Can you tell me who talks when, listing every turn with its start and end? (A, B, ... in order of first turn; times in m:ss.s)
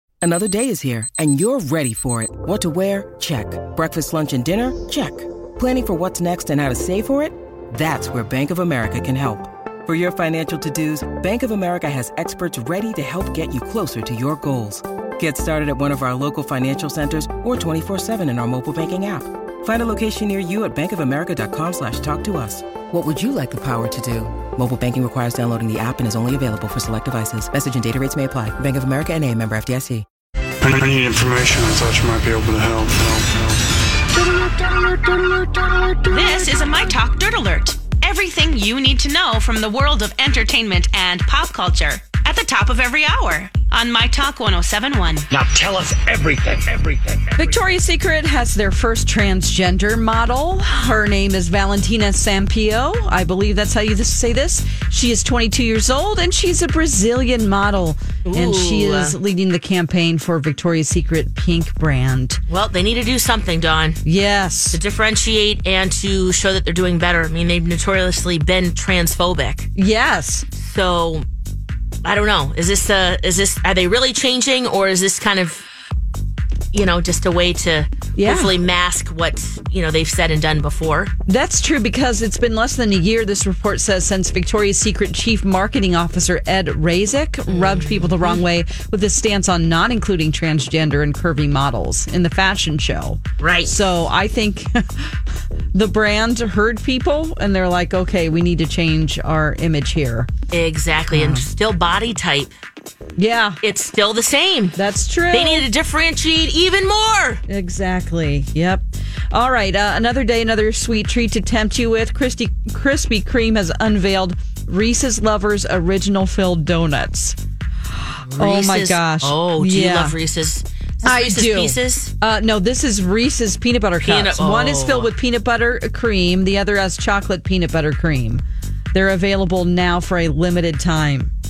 0:00.2-0:30.0 A
0:30.6-0:33.6 B
0:36.1-0:45.3 C
0:45.3-0:47.5 D
0:47.4-1:02.4 E
0:58.2-0:59.2 F
1:02.5-1:04.0 F
1:04.0-1:04.8 E
1:04.7-1:09.7 F
1:09.8-1:10.5 E
1:10.5-1:11.2 F
1:12.0-1:15.6 F
1:16.7-1:21.1 F
1:18.2-1:18.6 E
1:21.3-1:35.2 E
1:27.5-1:28.4 F
1:33.4-1:33.7 F
1:35.7-1:40.3 E
1:40.5-1:42.5 F
1:41.1-1:41.4 E
1:43.2-1:43.6 E
1:43.6-1:44.8 F
1:44.7-1:45.7 E
1:45.3-1:47.4 F
1:47.5-1:57.4 E
1:57.9-2:00.2 E
1:58.2-2:02.1 F
2:01.0-2:11.3 E
2:04.0-2:05.1 F